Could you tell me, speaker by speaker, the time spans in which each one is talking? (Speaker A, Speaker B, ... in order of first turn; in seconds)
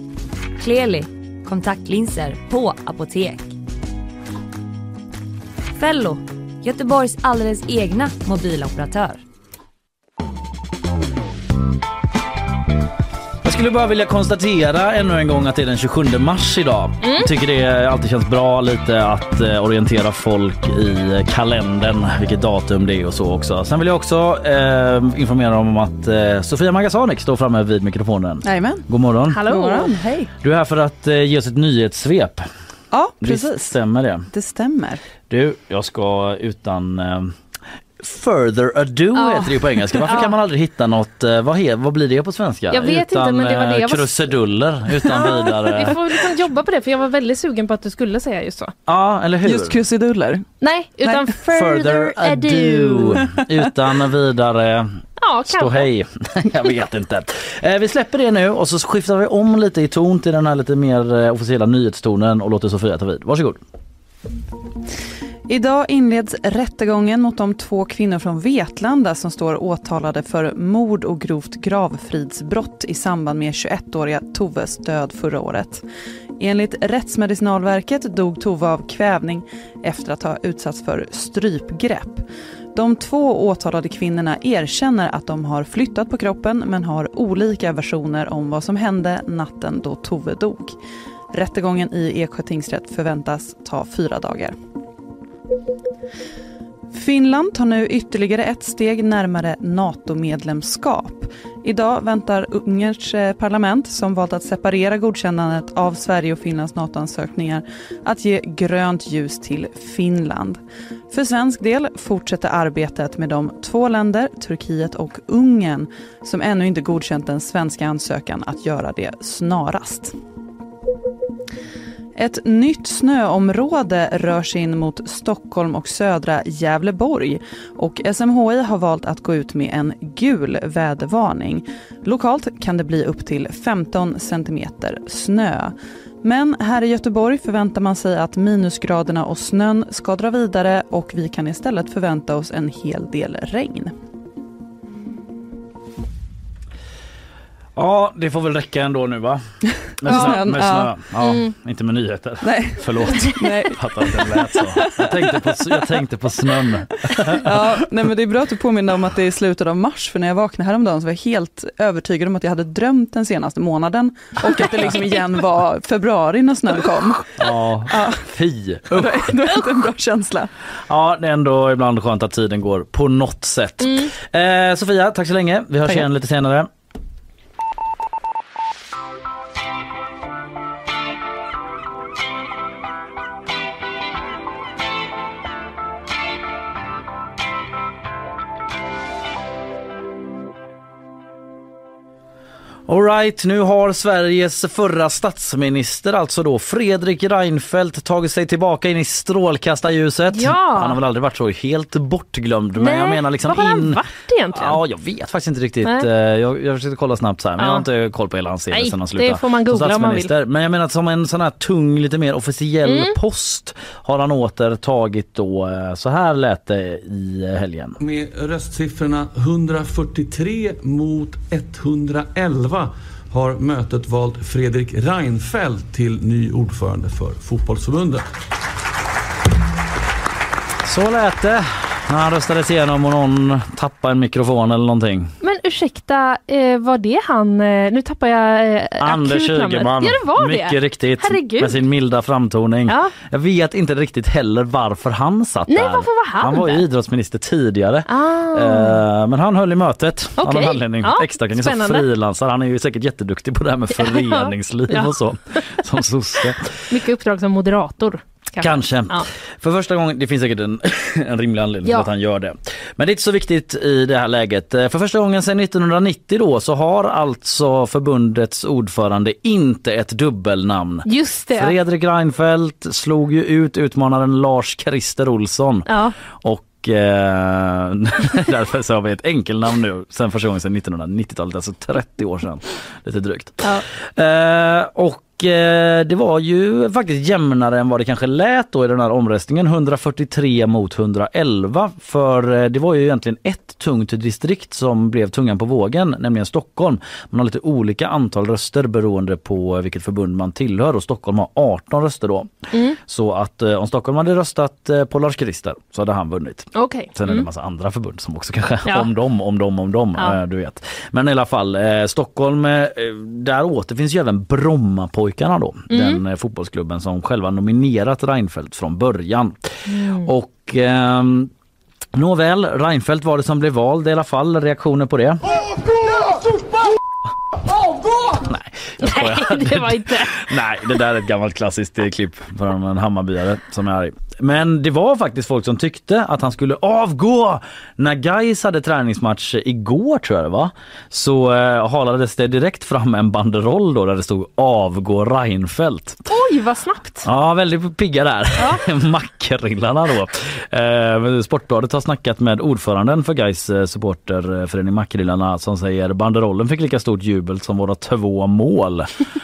Speaker A: 0.6-3.5, 5.7-9.2
Speaker B: 13.4-29.5, 30.4-32.5, 33.2-34.3, 35.3-37.4, 38.0-46.1, 48.9-49.8, 51.5-63.6, 147.8-157.5, 167.4-169.3, 170.9-176.7, 192.9-204.0, 204.5-218.0, 230.8-235.3, 239.0-256.8, 258.6-321.5, 322.1-325.8, 328.3-346.2, 347.2-359.2
Speaker C: 17.0-17.3, 29.3-30.2, 39.1-40.3, 42.7-44.1, 45.0-48.7, 50.6-53.2, 55.2-55.9, 150.1-150.6, 151.2-151.5, 153.1-153.4, 173.8-174.1, 200.3-201.0, 202.8-204.8, 207.6-207.9, 208.7-210.3, 212.8-213.2, 235.4-241.8, 242.9-243.1, 245.7-246.8, 248.1-249.0, 250.4-252.1, 253.9-255.7, 256.9-259.3, 271.1-271.8, 275.9-276.1, 302.7-303.0, 306.7-307.5, 315.9-316.2, 319.9-320.3, 329.0-330.5, 346.3-347.2
Speaker D: 28.4-28.9, 29.4-30.2, 32.9-33.8, 34.3-35.0, 49.4-50.4, 51.0-51.4, 65.5-75.8, 76.4-90.7, 91.3-94.5, 96.9-110.6, 111.1-120.2, 122.2-143.9, 149.9-150.9, 152.4-155.1, 157.1-168.2, 168.9-170.5
Speaker E: 218.0-228.2